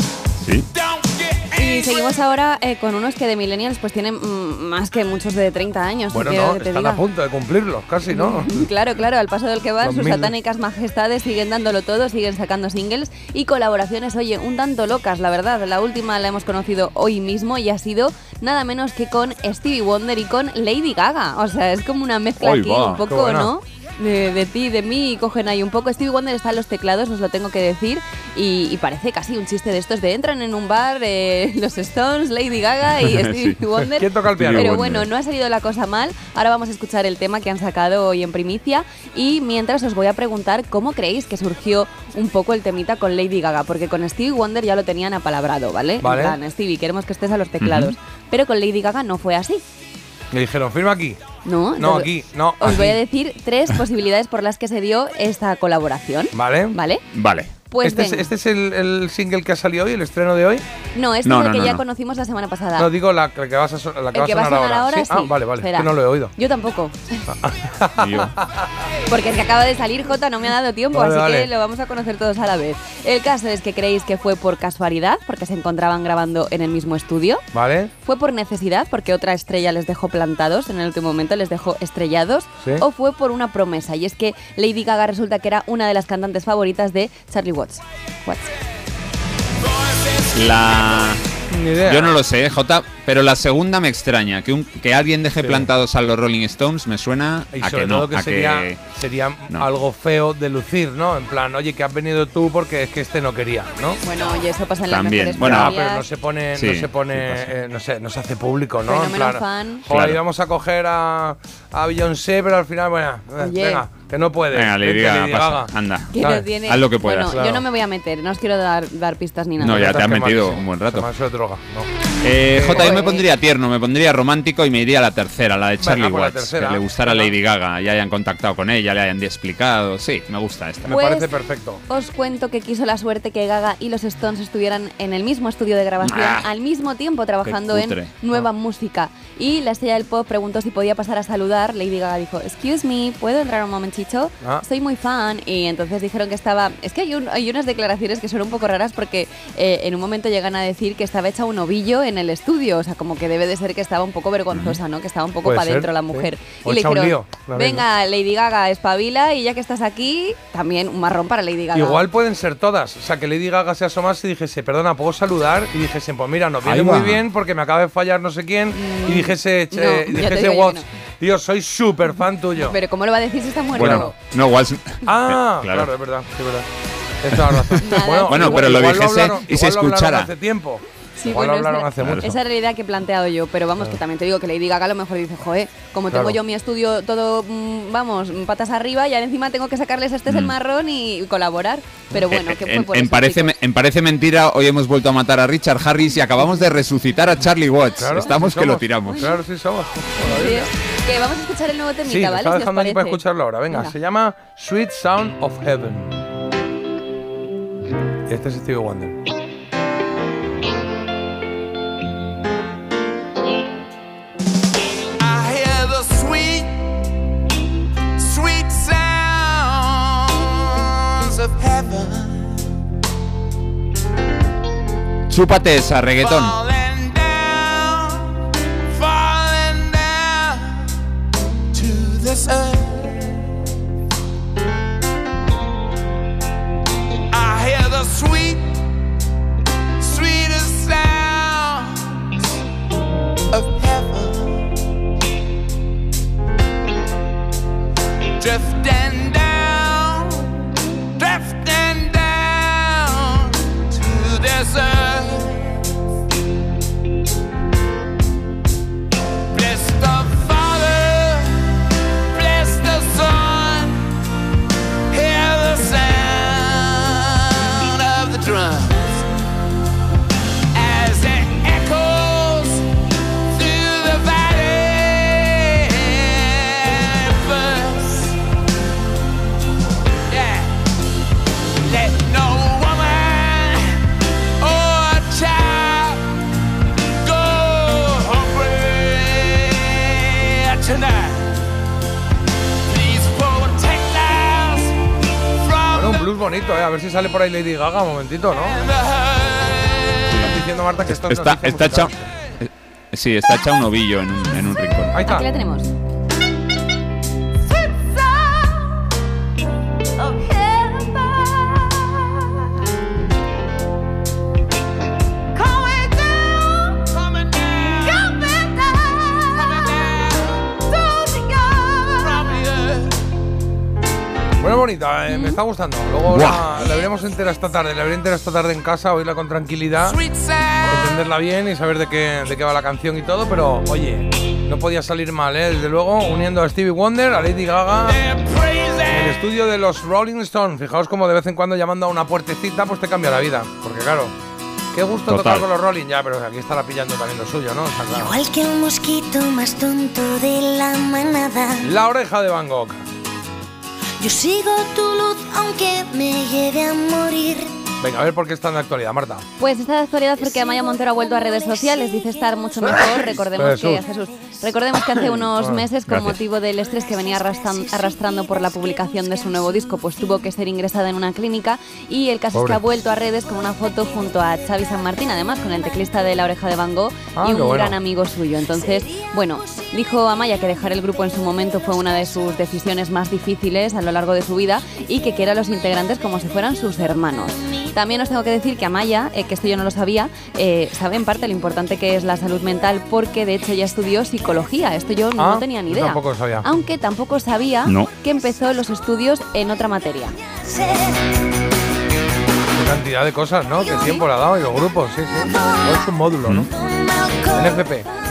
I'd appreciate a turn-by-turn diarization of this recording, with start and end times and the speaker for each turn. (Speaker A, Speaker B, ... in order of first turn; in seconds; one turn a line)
Speaker A: 0.4-0.7
Speaker B: 0.9-1.6
Speaker C: 1.5-7.0
Speaker D: 6.1-8.7
Speaker C: 8.1-49.6
Speaker D: 9.8-10.3
Speaker A: 22.4-23.0
Speaker D: 23.1-23.5
Speaker A: 33.2-33.5
Speaker D: 33.8-34.7
Speaker A: 34.4-35.1
Speaker D: 46.0-46.4
Speaker A: 47.6-47.9
Speaker D: 50.3-51.2
Speaker C: 51.4-57.0
Speaker D: 51.8-53.0
Speaker D: 56.3-56.8
Speaker A: 57.1-57.5
Speaker C: 57.6-58.3
Speaker D: 57.8-60.6
Speaker C: 60.9-62.9
Speaker A: 61.2-61.8
Speaker D: 62.8-66.3
Speaker C: 64.1-67.2
Speaker D: 67.3-68.5
Speaker A: 68.0-68.3
Speaker C: 69.1-77.5
Speaker D: 70.9-71.5
Speaker D: 77.5-77.9
Speaker C: 78.0-88.5
Speaker B: 90.0-90.7
Speaker A: 90.3-91.2
Speaker D: 91.5-92.2
Speaker A: 91.9-98.8
Speaker D: 95.4-95.7
Speaker D: 97.5-104.0
Speaker C: 104.0-106.0
Speaker A: 104.9-105.6
Speaker D: 105.4-116.5
Speaker A: 106.5-107.4
Speaker C: 108.8-109.9
Speaker A: 109.9-110.2
Speaker C: 113.4-113.8
Speaker A: 114.5-116.2
Speaker C: 116.1-119.9
Speaker A: 116.7-117.3
Speaker D: 117.2-117.6
Speaker D: 119.6-123.0
Speaker A: 119.6-121.0
Speaker A: 122.2-130.9
Speaker C: 122.7-123.2
Speaker D: 125.8-127.3
Speaker D: 130.8-131.8
Speaker C: 130.9-131.3
Speaker C: 131.9-162.0
Speaker A: 136.0-136.5
Speaker A: 137.4-138.1
Speaker A: 154.5-154.8
Speaker D: 155.4-157.8
Speaker D: 161.7-172.8
Speaker A: 166.7-167.2
Speaker C: 168.7-170.8
Speaker C: 172.6-174.1
Speaker D: 173.7-174.1
Speaker A: 173.8-175.9
Speaker D: 175.0-176.7
Speaker D: 177.2-182.2
Speaker C: 177.8-178.9
Speaker A: 178.2-180.3
Speaker C: 181.2-193.5
Speaker A: 182.0-182.3
Speaker D: 186.1-186.4
Speaker A: 192.3-199.3
Speaker D: 198.0-200.7
Speaker C: 199.1-199.4
Speaker C: 200.2-203.9
Speaker D: 202.0-206.1
Speaker D: 208.3-209.2
Speaker B: 215.2-216.8
Speaker B: 218.2-222.5
Speaker A: 225.3-226.6
Speaker B: 226.1-228.3
Speaker B: 228.9-230.9
Speaker B: 231.7-233.3
Speaker B: 237.3-238.8
Speaker B: 240.0-242.1
Speaker B: 243.5-244.6
Speaker B: 248.4-250.5
Speaker B: 251.2-255.8
Speaker B: 259.5-261.7
Speaker B: 262.3-264.1
Speaker B: 265.1-269.2
Speaker B: 270.7-272.9
Speaker B: 273.5-278.4
Speaker B: 280.3-280.7
Speaker B: 281.8-284.0
Speaker B: 284.6-286.2
Speaker B: 287.2-291.6
Speaker B: 292.9-295.0
Speaker B: 295.6-296.2
Speaker D: 295.9-298.8
Speaker B: 298.9-300.4
Speaker D: 300.3-302.2
Speaker A: 301.1-305.1
Speaker D: 305.1-305.5
Speaker C: 305.2-305.9
Speaker E: 307.9-309.0
Speaker E: 310.2-312.3
Speaker E: 315.6-316.1
Speaker B: 316.1-316.5
Speaker B: 317.1-318.1
Speaker E: 318.1-319.9
Speaker B: 319.7-320.5
Speaker E: 320.8-322.1
Speaker B: 322.2-323.2
Speaker D: 324.6-330.2
Speaker C: 325.3-325.6
Speaker A: 326.3-326.6
Speaker B: 330.0-331.1
Speaker D: 330.9-338.2
Speaker B: 338.1-339.4
Speaker D: 339.0-344.3
Speaker D: 344.9-348.4
Speaker A: 345.3-345.6
Speaker E: 348.1-351.9
Speaker D: 351.8-353.0
Speaker E: 354.2-357.7
Speaker D: 358.0-359.4
Speaker C: 359.6-400.4
Speaker E: 361.1-362.3
Speaker D: 363.5-364.0
Speaker D: 365.4-365.9
Speaker A: 366.1-366.4
Speaker E: 368.1-369.9
Speaker D: 372.5-372.8
Speaker D: 377.3-378.0
Speaker D: 395.4-396.6
Speaker A: 397.9-398.1
Speaker E: 400.6-401.2
Speaker D: 402.7-406.7
Speaker C: 403.9-404.2
Speaker E: 406.7-407.9
Speaker D: 407.5-408.1